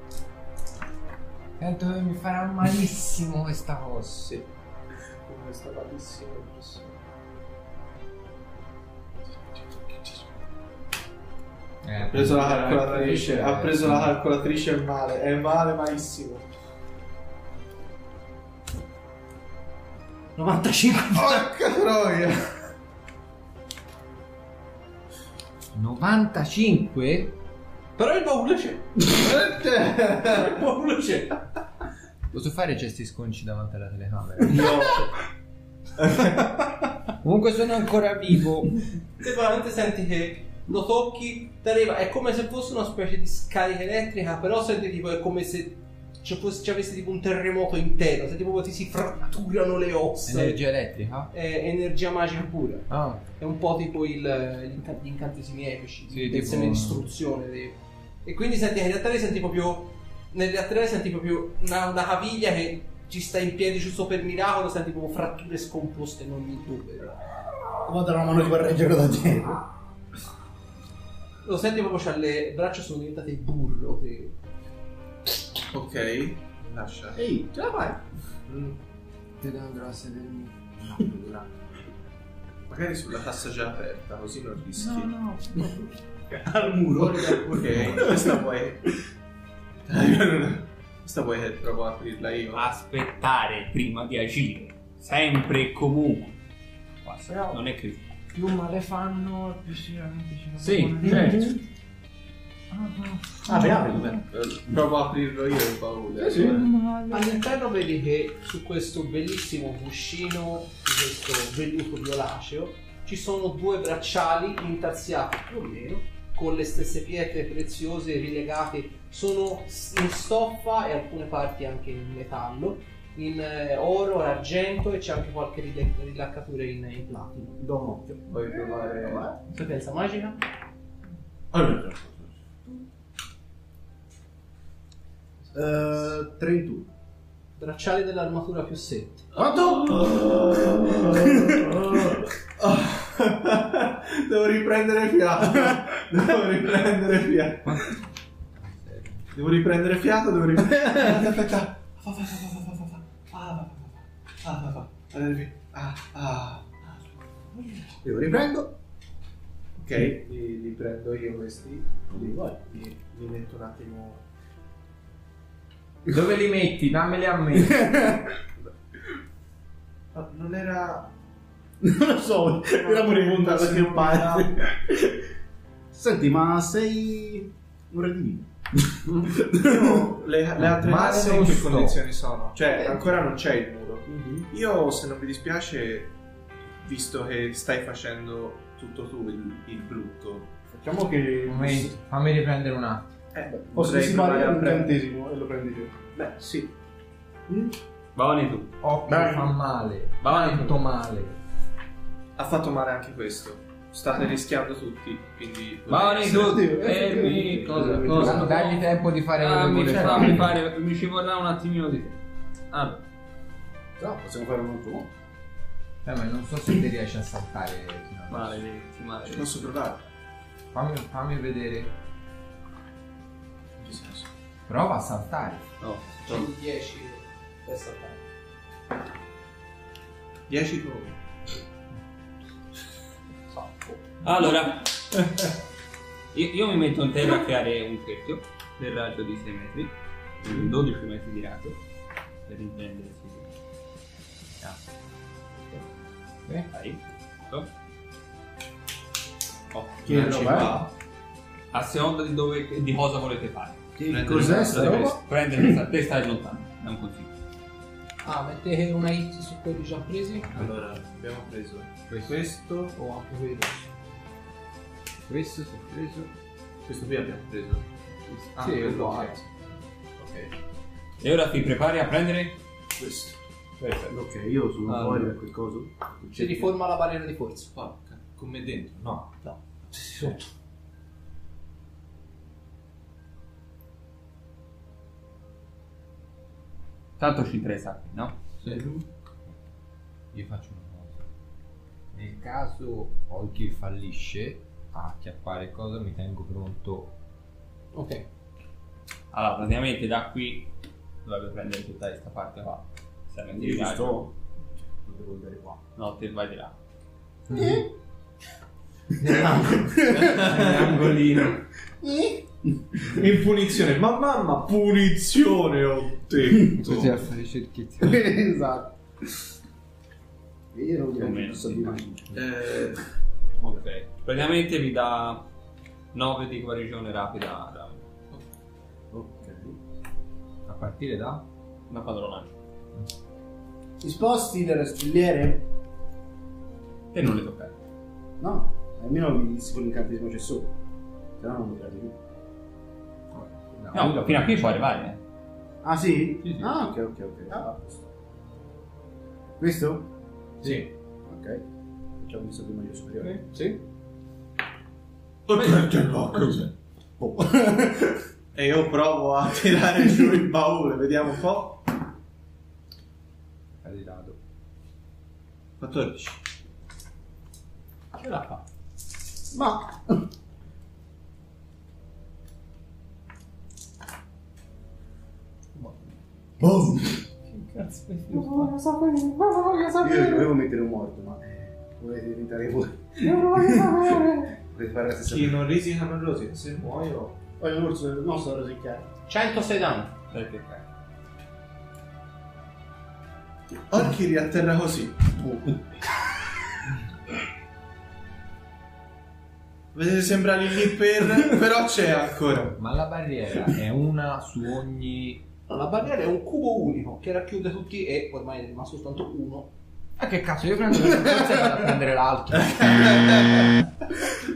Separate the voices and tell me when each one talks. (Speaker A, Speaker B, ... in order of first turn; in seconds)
Speaker A: 1.6-4.3, 11.8-14.1, 25.7-27.4, 32.3-35.0, 37.2-38.8, 50.2-51.3, 52.9-53.2, 56.1-57.1, 79.4-81.1, 84.8-85.9, 86.9-88.2, 97.3-97.6, 98.3-101.6, 102.7-104.2, 106.3-107.4, 147.7-148.0, 148.6-149.2, 166.1-168.1, 180.6-182.0, 191.5-193.1, 198.8-201.4, 208.2-210.5, 216.1-218.6, 220.7-221.9, 224.7-225.7, 262.1-262.4, 265.3-266.3, 290.3-291.2, 292.1-297.1, 307.5-307.8, 309.2-311.2, 316.7-318.2, 330.7-331.4, 343.3-344.8, 363.8-364.4, 402.8-405.4, 410.2-413.2
Speaker B: 5.3-7.0, 9.5-10.2, 12.1-16.5, 21.1-22.5, 29.4-30.5, 34.5-35.1, 36.0-36.7, 75.7-77.2, 78.5-78.8, 82.7-85.1, 87.5-89.0, 89.9-92.7, 103.5-106.7, 128.3-129.3, 131.5-132.3, 139.3-147.8, 149.3-158.0, 159.8-164.2, 170.1-171.1, 172.7-174.5, 179.6-186.1, 186.8-190.5, 193.3-194.9, 196.2-196.7, 202.4-206.7, 207.6-208.8, 209.8-210.5, 219.2-220.0, 223.8-224.3, 230.5-231.2, 235.1-235.5, 250.1-250.9, 254.1-255.1, 260.5-262.9, 266.9-267.9, 268.5-269.8, 277.7-279.4, 310.1-311.6, 313.1-317.2, 322.3-323.0, 350.6-350.9, 355.5-356.7, 358.6-361.9, 365.8-366.4, 378.5-380.1, 383.7-384.2, 385.2-387.4, 393.9-395.3, 399.9-402.8, 412.6-413.7
Speaker C: 20.4-21.5, 28.0-31.4, 39.2-50.6, 51.3-67.2, 71.4-74.3, 107.1-127.6, 129.4-130.4, 137.6-139.3, 226.2-228.2, 233.5-234.0, 258.2-260.5, 262.9-263.9, 268.6-269.4, 276.3-277.7, 279.9-280.4, 288.6-289.0, 297.9-298.3, 353.2-353.8, 368.1-368.6, 375.8-376.1, 389.3-390.1, 405.7-409.7
Speaker D: 67.8-69.7, 77.2-78.0, 80.9-81.5, 86.3-88.4, 101.0-101.4, 103.5-104.2, 106.2-106.7, 127.6-129.4, 135.5-136.9, 139.3-142.2, 158.0-158.7, 162.1-162.6, 167.6-168.3, 171.8-175.2, 175.9-180.1, 184.1-184.5, 190.7-191.9, 193.4-195.9, 199.1-199.6, 206.3-208.6, 214.0-215.1, 250.1-250.8, 254.0-255.2, 273.0-273.3, 274.1-276.7, 303.5-304.3, 305.1-305.8, 307.5-307.9, 309.2-310.6, 312.0-313.2, 318.0-319.0, 320.7-322.4, 329.1-329.8, 334.0-335.7, 338.4-340.7, 341.4-342.2, 345.8-348.1, 349.6-350.1, 350.6-351.6, 352.2-353.6, 357.2-358.2, 369.5-370.3, 376.6-377.2, 380.0-385.6, 387.6-389.1
Speaker E: 92.5-96.4, 97.0-98.0, 100.6-101.6, 198.2-198.7, 200.2-200.8, 205.9-212.2, 212.7-213.0, 218.3-219.5, 225.8-226.4, 234.2-234.9, 236.3-241.8, 242.5-243.5, 246.7-247.7, 249.7-250.0, 251.7-257.3, 271.2-272.6, 273.8-274.1, 274.9-275.3, 287.2-288.4, 299.3-300.7, 301.2-304.2, 306.0-306.7, 321.2-322.1, 323.6-325.5, 326.1-328.0, 331.9-332.5, 337.1-337.7, 343.9-345.2, 377.5-378.7, 390.3-390.9